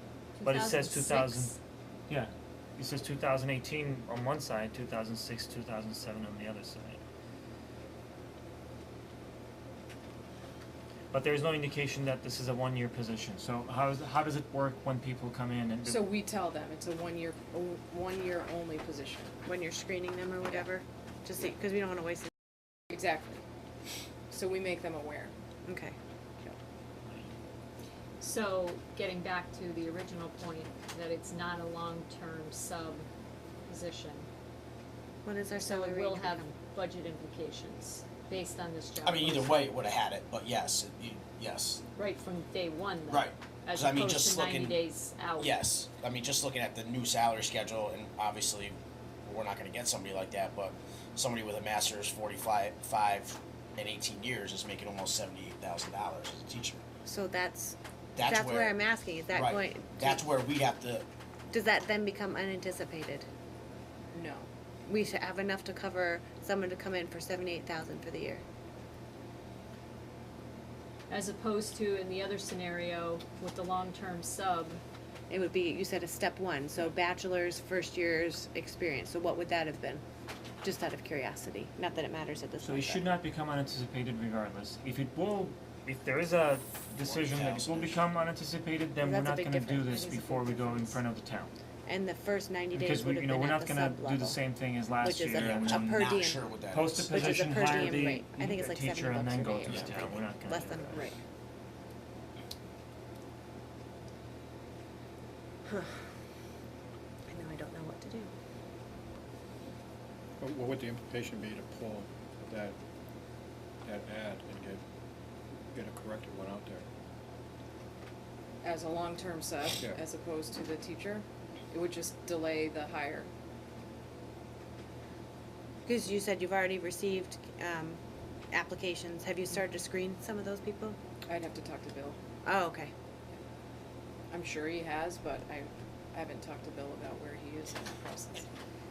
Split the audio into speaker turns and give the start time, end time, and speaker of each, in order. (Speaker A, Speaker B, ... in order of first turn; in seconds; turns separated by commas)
Speaker A: 0.4-1.6, Speaker B: 0.4-1.5, Speaker B: 2.1-7.0, Speaker B: 11.1-16.1, Speaker C: 15.8-19.3, Speaker D: 19.4-22.3, Speaker C: 22.9-23.4, Speaker C: 24.3-25.3, Speaker D: 25.7-26.0, Speaker A: 28.2-33.1, Speaker A: 33.7-34.3, Speaker D: 35.2-36.5, Speaker A: 35.6-39.7, Speaker E: 39.0-41.8, Speaker A: 42.0-45.6, Speaker E: 43.1-44.8, Speaker E: 45.4-56.8, Speaker D: 57.0-60.3, Speaker E: 58.1-58.8, Speaker E: 59.3-61.1, Speaker D: 61.5-63.3, Speaker C: 64.1-64.5, Speaker D: 64.9-68.4, Speaker A: 71.1-74.8, Speaker D: 75.3-80.0, Speaker D: 80.6-83.1, Speaker B: 82.6-91.5, Speaker E: 87.0-88.0, Speaker D: 89.0-91.0, Speaker D: 91.9-94.4, Speaker B: 92.7-96.2, Speaker D: 95.0-101.2, Speaker E: 95.4-97.6, Speaker B: 96.7-101.1, Speaker E: 99.7-100.1, Speaker D: 105.7-106.0, Speaker D: 107.3-108.3, Speaker F: 110.4-112.8, Speaker F: 113.8-114.8, Speaker F: 115.7-116.9, Speaker C: 118.6-123.3, Speaker F: 119.7-120.0, Speaker D: 125.9-128.0, Speaker D: 128.5-131.0, Speaker C: 131.3-132.2, Speaker D: 132.4-132.9, Speaker C: 134.3-138.5